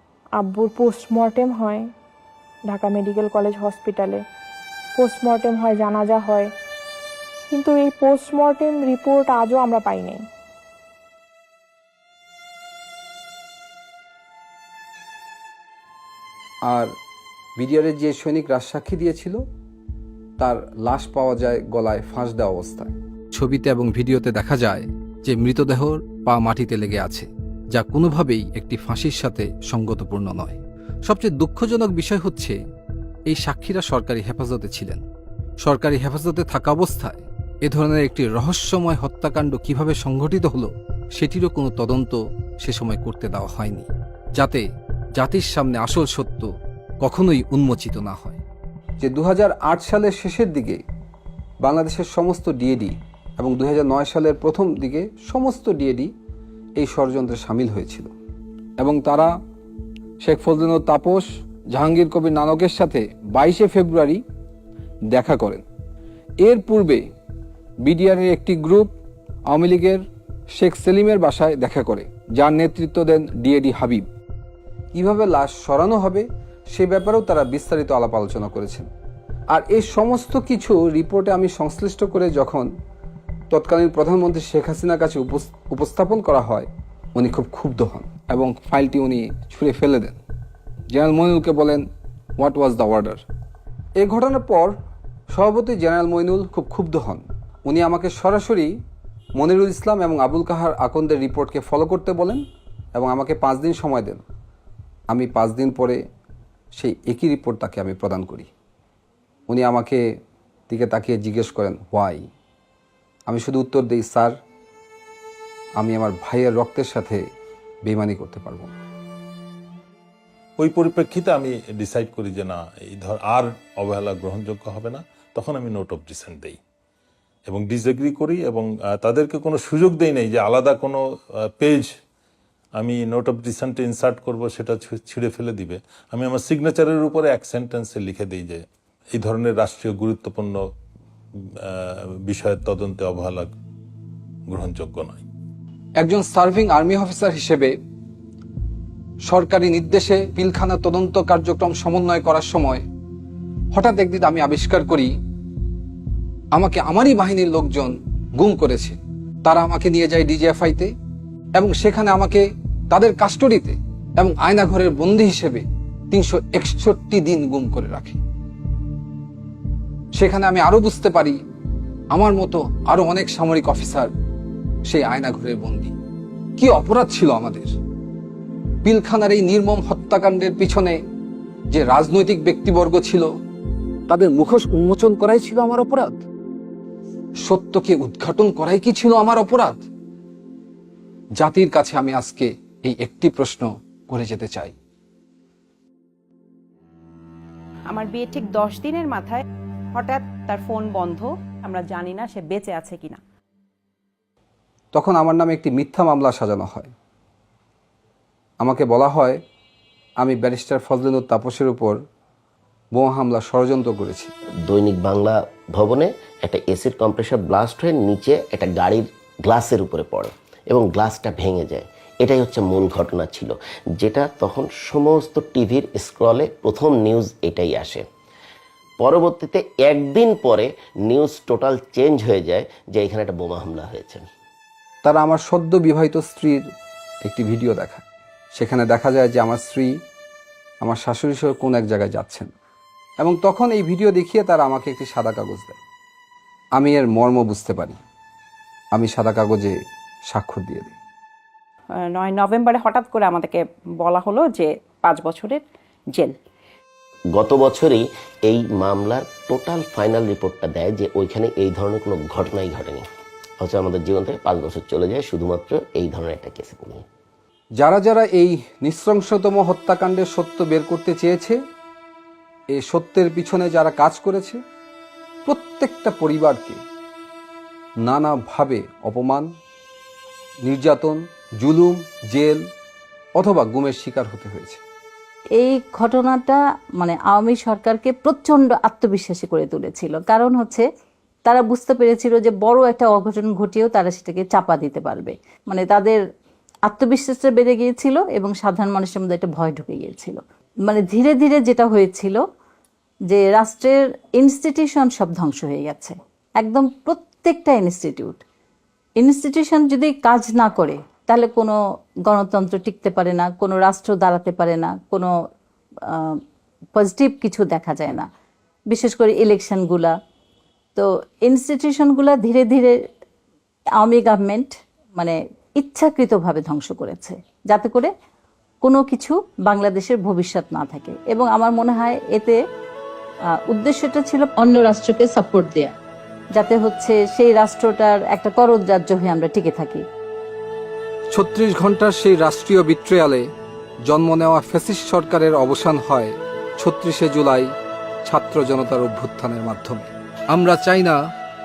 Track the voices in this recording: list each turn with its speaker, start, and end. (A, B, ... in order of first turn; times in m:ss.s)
0:00.4-0:01.9 A
0:02.7-0:04.2 A
0:05.0-0:06.5 A
0:07.5-0:10.2 A
0:16.7-0:17.0 B
0:17.6-0:19.4 B
0:20.4-0:32.6 B
0:33.3-0:35.0 B
0:35.6-0:46.5 B
0:47.0-0:48.4 B
0:49.0-0:50.8 B
0:51.6-0:56.1 B
0:56.8-0:58.1 B
0:58.8-0:59.3 B
1:00.2-1:04.2 B
1:05.1-1:05.6 B
1:06.4-1:07.0 B
1:07.8-1:08.9 B
1:09.5-1:10.0 B
1:10.6-1:14.1 B
1:14.9-1:18.9 B
1:19.5-1:22.7 B
1:23.5-1:30.2 B
1:30.9-1:31.8 B
1:32.4-1:33.2 B
1:34.0-1:34.8 B
1:35.3-1:38.8 B
1:39.4-1:42.4 B
1:43.0-1:44.2 B
1:45.1-1:46.0 B
1:46.8-1:48.5 B
1:49.5-1:50.0 B
1:50.7-1:52.3 B
1:53.3-1:54.4 B
1:55.8-1:57.2 B
1:57.9-1:58.7 B
2:00.6-2:06.6 C
2:07.5-2:11.0 C
2:11.6-2:11.9 C
2:12.8-2:20.6 C
2:21.4-2:23.5 C
2:24.5-2:25.2 C
2:26.0-2:27.7 B
2:29.2-2:32.8 B
2:33.7-2:35.1 B
2:36.5-2:40.9 B
2:41.6-2:48.2 B
2:50.2-2:51.4 B
2:52.1-2:54.1 B
2:54.9-2:56.0 B
2:56.6-2:57.8 B
2:58.8-3:01.0 B
3:01.7-3:03.3 B
3:04.1-3:06.2 B
3:07.4-3:09.8 B
3:11.4-3:14.7 B
3:17.9-3:19.4 D
3:20.0-3:23.2 D
3:24.9-3:26.9 B
3:28.6-3:29.4 B
3:30.2-3:32.0 B
3:32.9-3:34.3 B
3:34.7-3:48.1 E
3:49.0-3:54.3 E
3:55.0-3:56.6 B
3:57.2-4:00.0 B
4:00.8-4:02.5 B
4:03.2-4:05.8 B
4:06.8-4:08.0 B
4:08.9-4:09.8 B
4:10.3-4:11.0 B
4:12.1-4:15.6 D
4:17.3-4:23.1 E
4:23.6-4:27.0 E
4:27.8-4:31.6 B
4:32.7-4:34.6 B
4:35.5-4:36.8 B
4:38.0-4:39.5 B
4:40.6-4:42.7 B
4:43.4-4:44.8 B
4:45.6-4:50.8 F
4:51.5-4:56.2 F
4:56.9-5:02.4 F
5:03.3-5:08.4 F
5:09.2-5:15.3 F
5:16.1-5:16.4 F
5:17.0-5:18.3 F
5:18.9-5:20.2 F
5:21.0-5:23.0 F
5:24.0-5:28.1 F
5:28.8-5:32.6 F
5:33.7-5:35.9 F
5:36.6-5:40.0 F
5:41.3-5:43.5 B
5:44.1-5:47.7 B
5:48.2-5:51.2 B